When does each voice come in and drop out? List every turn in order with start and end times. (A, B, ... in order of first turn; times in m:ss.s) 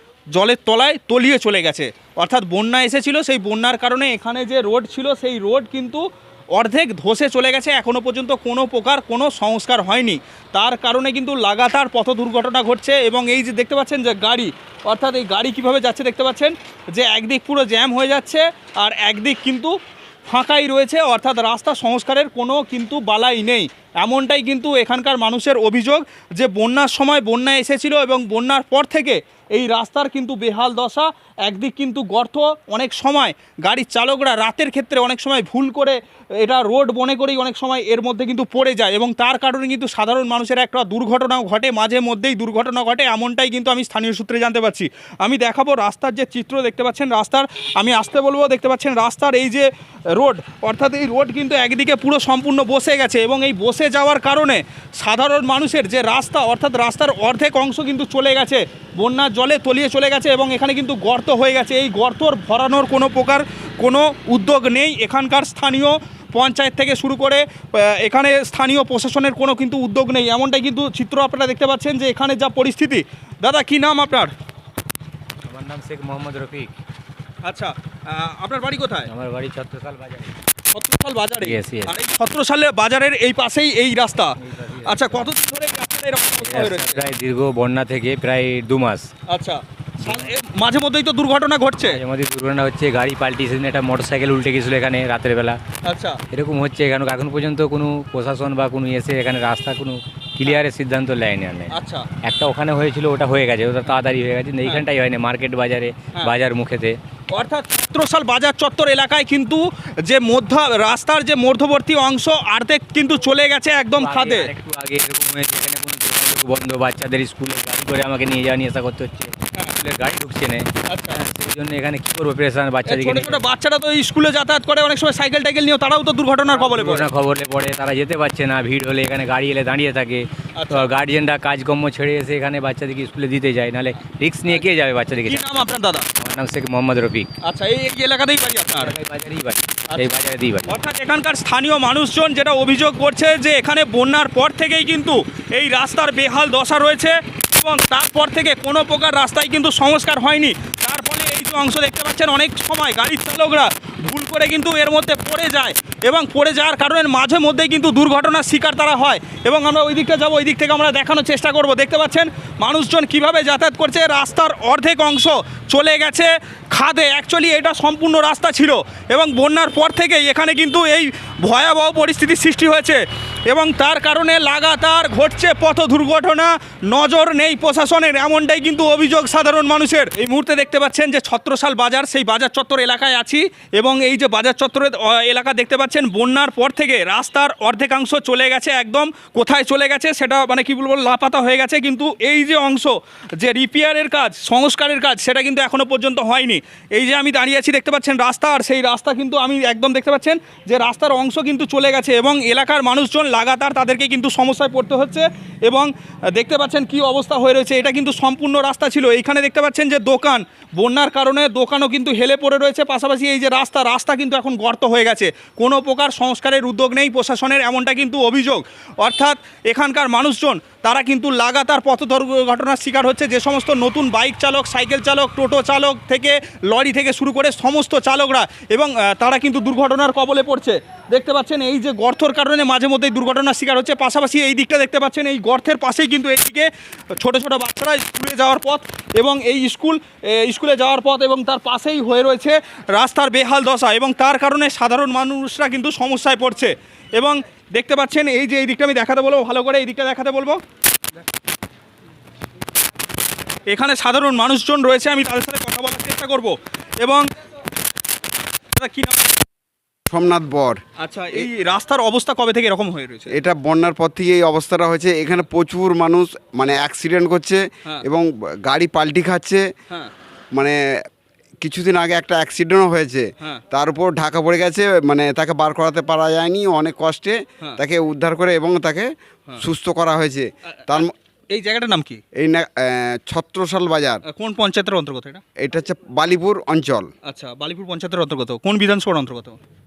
0:00.3-0:19.8 A
0:20.3-1:14.3 A
1:15.5-1:16.7 B
1:17.4-1:19.1 A
1:19.1-1:20.3 B
1:20.7-1:27.0 A
1:21.4-1:21.9 B
1:24.4-1:25.3 B
1:26.4-1:29.1 B
1:29.3-1:32.0 A
1:30.0-1:30.3 B
1:31.8-1:35.6 B
1:35.8-1:36.2 A
1:36.3-1:47.0 B
1:41.7-1:42.1 A
1:47.3-1:54.5 A
1:53.9-2:03.4 B
2:00.9-2:01.2 A
2:02.9-2:07.1 A
2:06.5-2:15.6 B
2:10.6-2:10.9 A
2:15.2-2:16.0 A
2:16.2-2:17.3 B
2:17.4-2:19.0 A
2:18.7-2:20.7 B
2:20.7-4:10.6 A
4:13.7-4:17.3 A
4:18.7-4:19.4 A
4:20.1-4:20.8 C
4:21.0-4:23.4 A
4:23.3-4:29.6 C
4:30.5-4:30.8 C
4:31.6-4:41.1 C
4:40.7-4:42.2 A
4:42.4-4:44.2 C
4:44.3-4:45.4 A
4:45.6-4:47.1 C
4:47.3-4:49.6 A